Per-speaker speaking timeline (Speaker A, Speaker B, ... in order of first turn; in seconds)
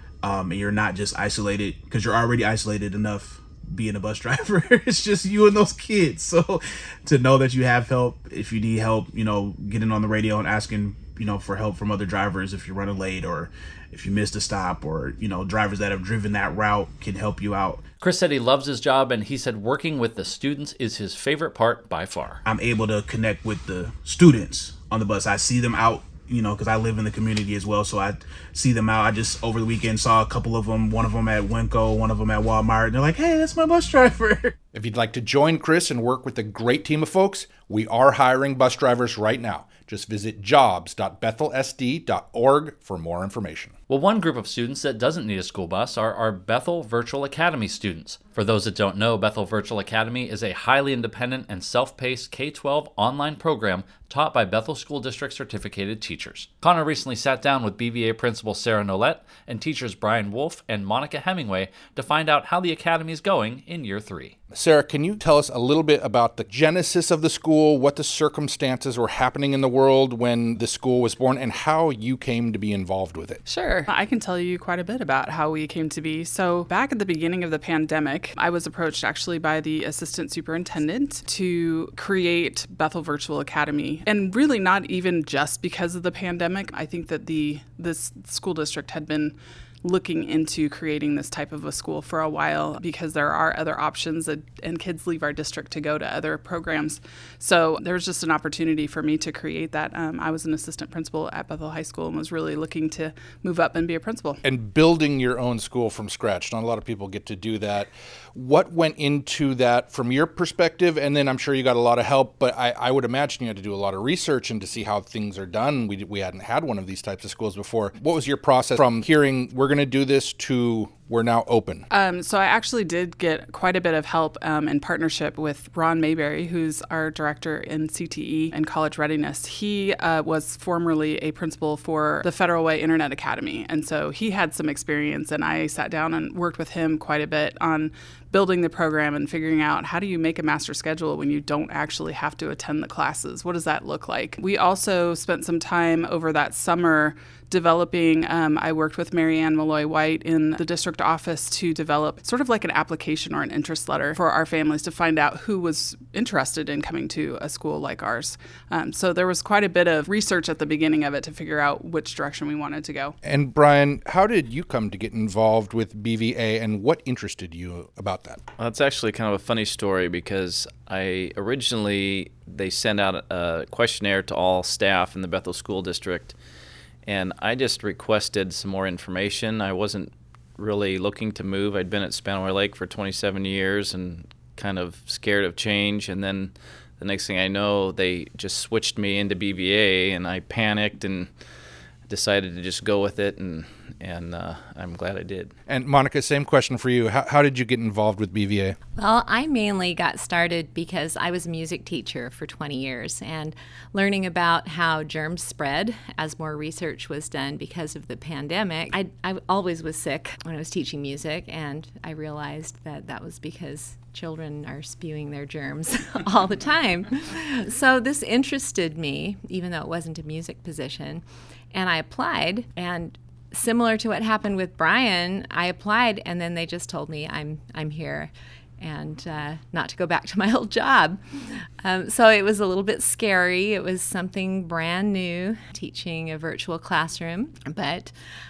Speaker A: 0.2-17.8, 22.4-34.5
Speaker B: 18.0-22.4, 43.9-64.3
Speaker C: 34.7-43.7, 64.5-73.4, 104.4-121.9, 163.2-168.4, 195.7-198.8
Speaker D: 73.5-104.4, 121.9-163.1
Speaker E: 168.6-176.4, 177.1-191.3, 192.1-195.5
Speaker F: 199.0-238.1